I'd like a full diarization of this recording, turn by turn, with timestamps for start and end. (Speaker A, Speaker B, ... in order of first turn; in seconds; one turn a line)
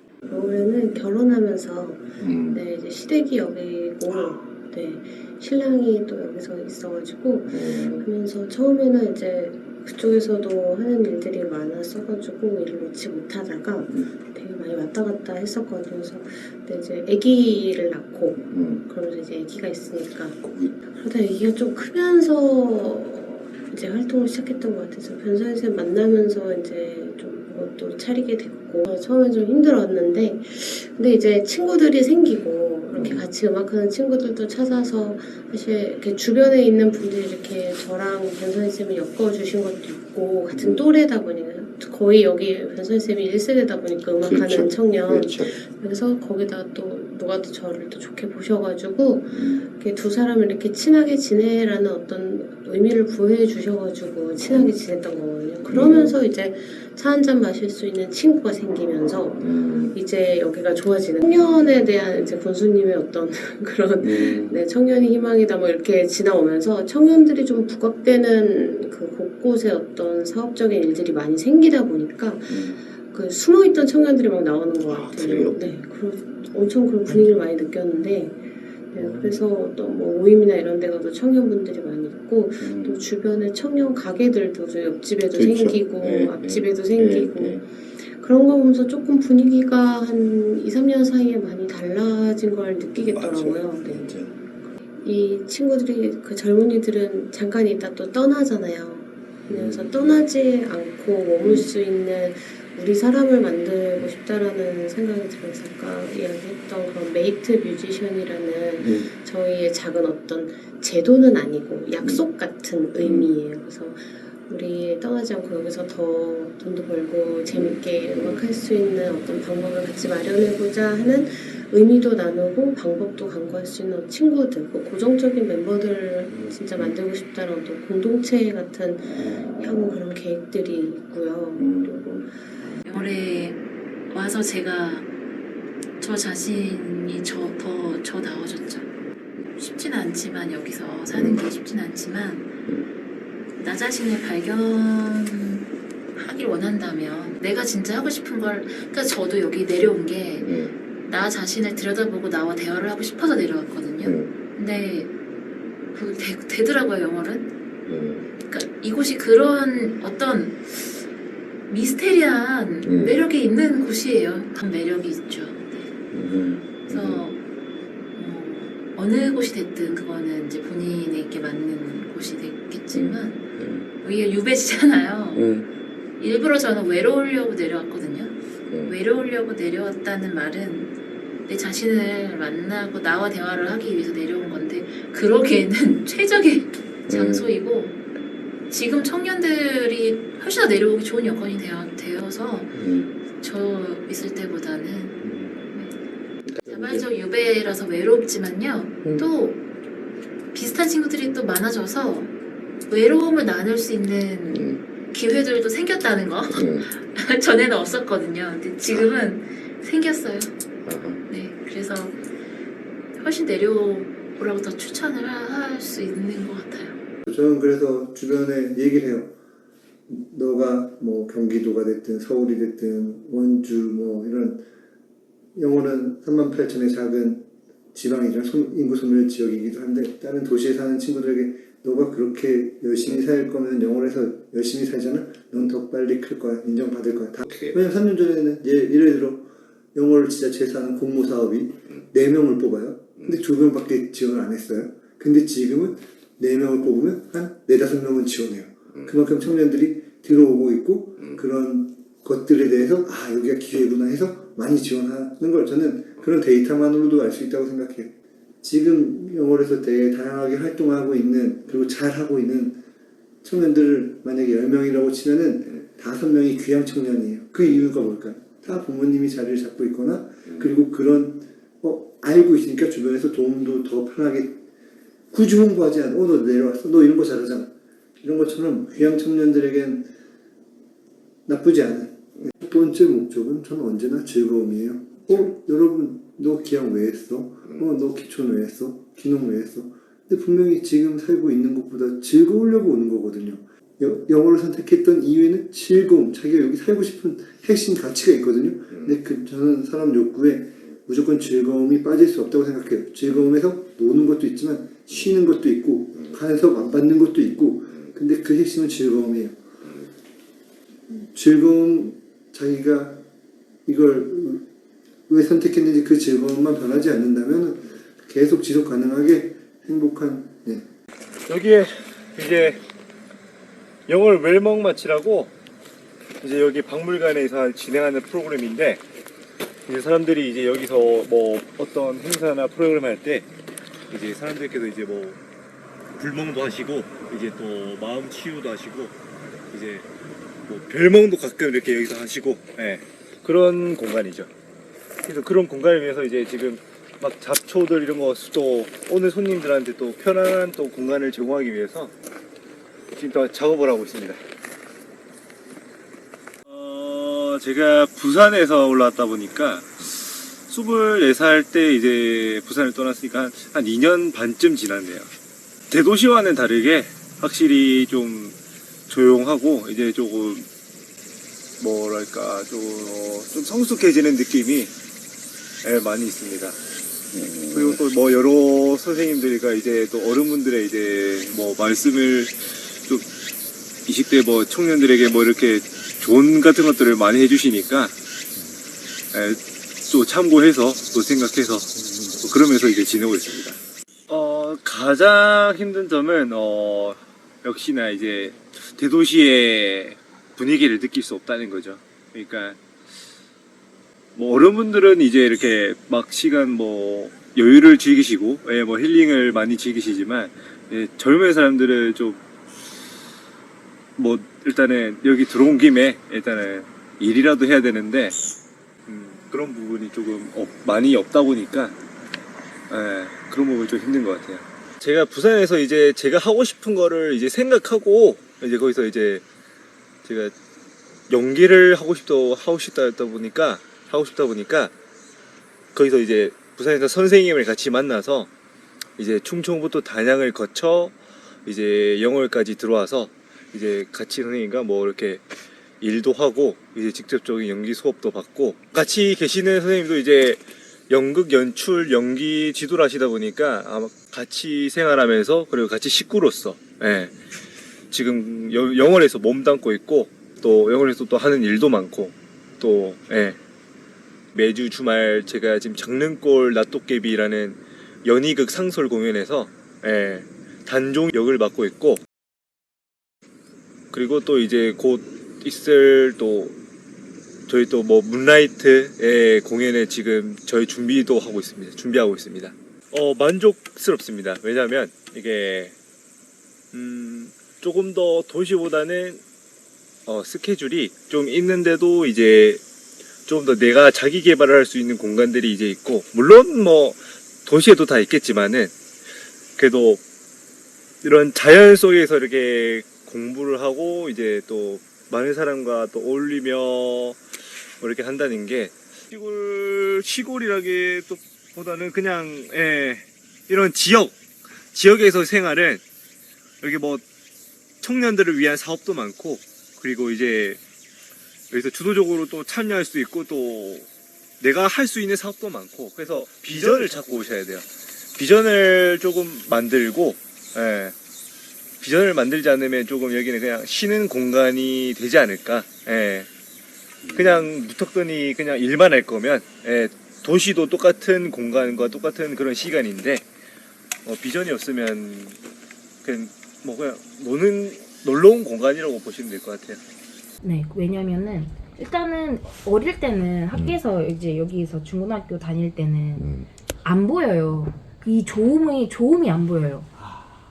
Speaker A: 0.3-78.4
Speaker B: 2.2-2.6
Speaker B: 7.5-8.0
Speaker B: 18.4-18.9
Speaker B: 20.4-20.8
Speaker B: 32.9-33.2
Speaker B: 40.5-40.8
Speaker B: 44.2-45.5
Speaker B: 49.3-49.6
Speaker B: 55.7-56.1
Speaker B: 59.4-60.0
Speaker B: 64.0-64.6
Speaker B: 72.5-72.8
Speaker B: 74.9-75.6
Speaker A: 78.9-94.2
Speaker B: 79.0-79.4
Speaker B: 82.6-83.0
Speaker B: 85.3-87.6
Speaker B: 93.0-94.3
Speaker A: 94.7-132.1
Speaker B: 99.5-100.2
Speaker B: 108.8-109.1
Speaker B: 113.0-113.3
Speaker B: 117.5-118.4
Speaker B: 126.3-126.9
Speaker B: 131.6-132.3
Speaker C: 132.8-135.1
Speaker C: 136.0-138.9
Speaker C: 139.6-142.6
Speaker B: 141.1-141.4
Speaker C: 143.6-155.1
Speaker B: 150.4-150.7
Speaker B: 154.0-154.3
Speaker C: 155.9-157.5
Speaker B: 157.9-158.2
Speaker C: 158.5-161.1
Speaker C: 161.7-165.9
Speaker B: 162.8-163.1
Speaker B: 166.1-167.2
Speaker C: 166.7-167.4
Speaker C: 168.2-173.5
Speaker B: 172.9-173.9
Speaker C: 174.0-175.6
Speaker B: 175.3-175.7
Speaker C: 176.2-188.0
Speaker B: 178.7-178.9
Speaker B: 187.1-187.4
Speaker C: 188.7-192.8
Speaker B: 192.8-193.1
Speaker C: 193.4-195.9
Speaker B: 195.2-195.6
Speaker B: 196.5-197.0
Speaker C: 196.7-199.6
Speaker C: 200.5-202.3
Speaker C: 202.9-210.5
Speaker B: 204.5-204.8
Speaker B: 206.5-206.8
Speaker B: 210.9-211.2
Speaker C: 211.3-212.2
Speaker C: 213.2-217.0
Speaker D: 217.3-219.3
Speaker D: 220.1-224.7
Speaker D: 225.6-262.8
Speaker B: 237.4-237.8
Speaker B: 248.9-249.2
Speaker D: 263.4-274.6
Speaker D: 275.3-280.1
Speaker D: 281.5-309.6
Speaker D: 311.1-313.2
Speaker D: 313.9-314.7
Speaker D: 315.3-320.9
Speaker E: 321.5-322.8
Speaker E: 324.1-325.5
Speaker E: 326.4-329.0
Speaker E: 329.9-333.5
Speaker E: 334.1-335.4
Speaker E: 336.2-339.1
Speaker E: 339.7-340.1
Speaker E: 340.7-344.5
Speaker E: 345.2-352.1
Speaker E: 353.1-354.4
Speaker E: 356.7-365.3
Speaker E: 365.9-368.6
Speaker E: 369.1-370.7
Speaker E: 371.8-374.9
Speaker E: 375.8-376.8
Speaker B: 377.3-378.0
Speaker E: 377.7-383.3
Speaker E: 384.1-388.1
Speaker E: 389.3-393.8
Speaker B: 391.9-392.4
Speaker E: 394.3-402.8
Speaker E: 404.4-412.4
Speaker E: 414.2-418.4
Speaker E: 419.1-421.9
Speaker E: 422.9-429.4
Speaker E: 430.2-430.5
Speaker E: 431.3-434.9
Speaker E: 435.9-438.5
Speaker E: 439.2-445.4
Speaker E: 446.0-457.4
Speaker E: 458.1-463.6
Speaker E: 464.5-472.2
Speaker E: 474.1-476.7
Speaker E: 477.7-485.9
Speaker E: 486.9-489.4
Speaker E: 490.3-492.8
Speaker E: 493.5-498.9
Speaker E: 499.8-500.2
Speaker E: 501.2-507.4
Speaker E: 508.0-514.4
Speaker E: 514.9-516.0
Speaker E: 516.8-517.2
Speaker E: 518.0-520.8
Speaker E: 521.7-524.1
Speaker E: 524.6-531.1
Speaker E: 532.0-536.5
Speaker B: 537.2-537.7
Speaker E: 537.3-543.5
Speaker E: 544.2-545.6
Speaker E: 546.2-550.0
Speaker F: 550.6-556.5
Speaker B: 553.7-554.0
Speaker B: 556.4-556.7
Speaker F: 557.0-560.1
Speaker B: 560.2-560.5